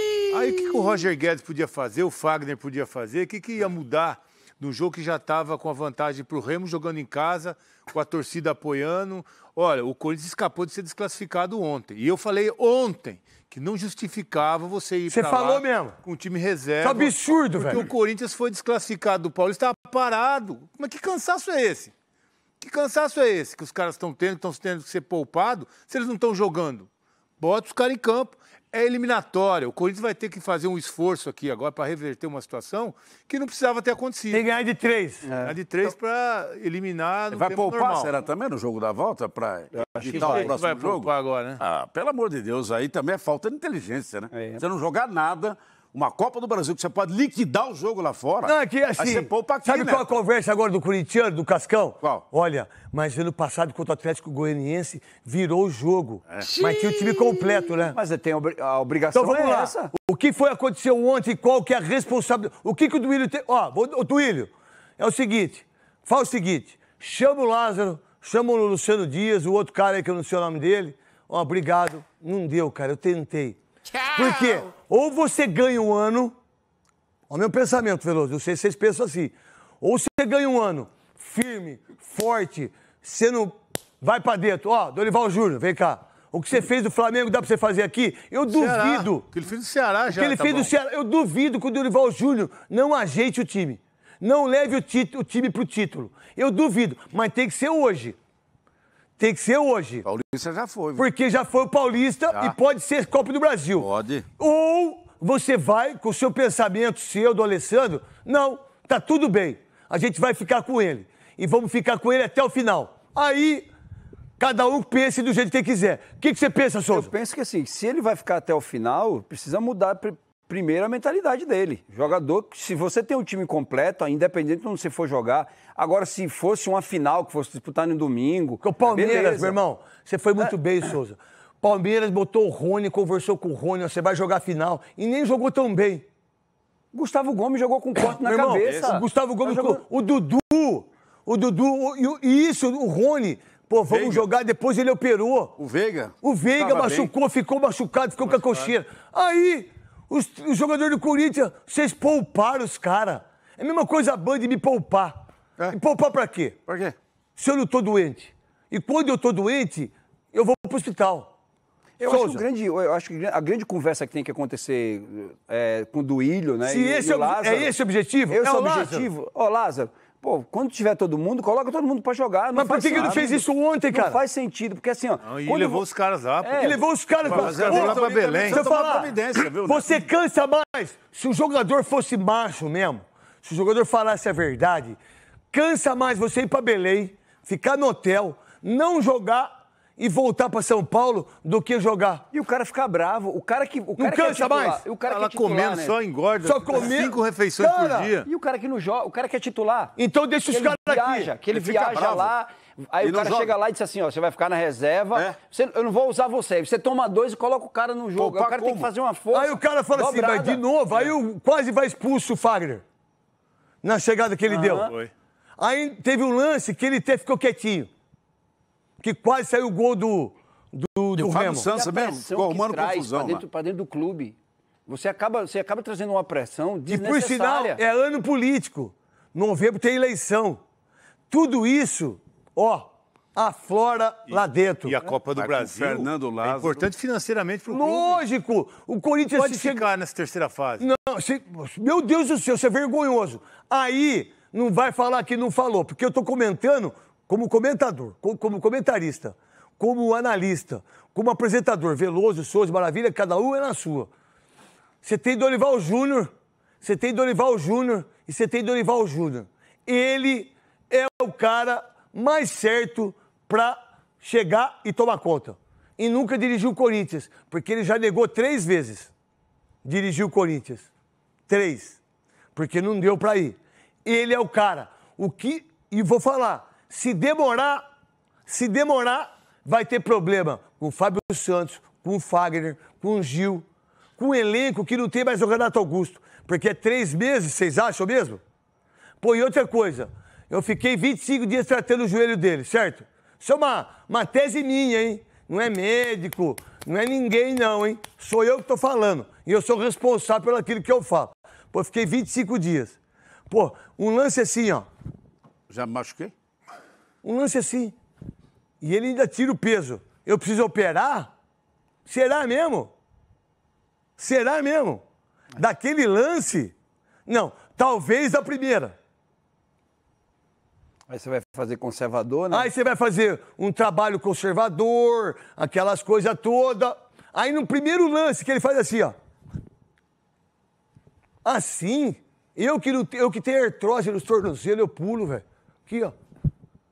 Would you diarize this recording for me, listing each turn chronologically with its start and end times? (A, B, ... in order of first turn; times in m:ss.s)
0:00.3-0:21.9 A
0:15.1-0:16.0 B
0:16.8-0:17.8 B
0:22.6-0:26.9 A
0:27.4-0:34.4 A
0:34.3-0:35.2 B
0:35.2-0:35.5 C
0:35.4-0:38.1 A
0:37.3-0:50.1 D
0:39.7-0:40.5 C
0:40.1-0:41.6 A
0:44.3-0:44.6 C
0:48.4-0:58.0 B
0:57.9-0:59.9 C
0:59.1-1:16.3 B
1:17.3-1:29.2 B
1:28.5-1:30.7 A
1:30.1-1:38.2 B
1:39.2-1:40.0 B
1:40.0-1:41.0 D
1:41.0-1:53.7 B
1:43.8-1:44.2 D
1:54.4-1:57.1 B
1:56.9-2:09.6 C
2:08.6-2:16.0 B
2:16.9-2:19.8 C
2:18.0-2:25.5 B
2:23.9-2:24.3 D
2:25.6-2:27.1 D
2:26.2-2:36.6 B
2:36.7-2:36.9 D
2:37.4-2:41.3 B
2:42.0-2:47.7 C
2:42.0-2:42.4 B
2:46.6-2:49.1 B
2:48.3-2:55.8 C
2:52.5-2:54.2 B
2:55.2-2:56.7 A
2:56.4-2:56.8 C
2:56.6-3:05.0 B
2:57.2-3:00.1 D
2:57.2-2:58.7 A
3:05.5-3:12.2 B
3:12.3-3:16.0 C
3:14.0-3:14.8 B
3:15.0-3:18.3 A
3:16.4-3:18.1 B
3:18.2-3:19.9 C
3:20.0-3:21.3 B
3:20.5-3:30.6 C
3:21.5-3:22.3 D
3:23.0-3:23.6 D
3:28.2-3:28.9 D
3:29.3-3:32.8 B
3:33.8-3:34.9 B
3:34.5-3:34.9 C
3:34.8-3:35.1 A
3:35.6-3:37.9 B
3:39.0-3:41.7 B
3:41.2-3:43.4 D
3:41.7-3:44.4 C
3:44.9-3:47.8 C
3:46.9-3:50.6 B
3:51.3-3:55.0 B
3:54.3-3:58.2 A
3:55.4-3:56.9 D
3:57.7-3:59.8 B
3:59.3-4:00.8 A
4:00.8-4:14.1 B
4:15.0-4:16.3 B
4:16.8-4:29.1 B
4:29.8-4:30.9 B
4:31.5-4:32.0 B
4:32.5-4:37.8 B
4:38.5-4:43.6 B
4:44.2-4:48.4 B
4:49.2-5:03.0 B
5:03.5-5:04.9 B
5:05.7-5:06.3 D
5:07.2-5:08.0 B
5:08.8-5:11.3 B
5:12.0-5:12.9 B
5:14.2-5:15.0 B
5:15.6-5:16.7 B
5:17.2-5:18.9 B
5:21.1-5:22.7 C
5:22.5-5:29.1 B
5:31.4-5:36.1 B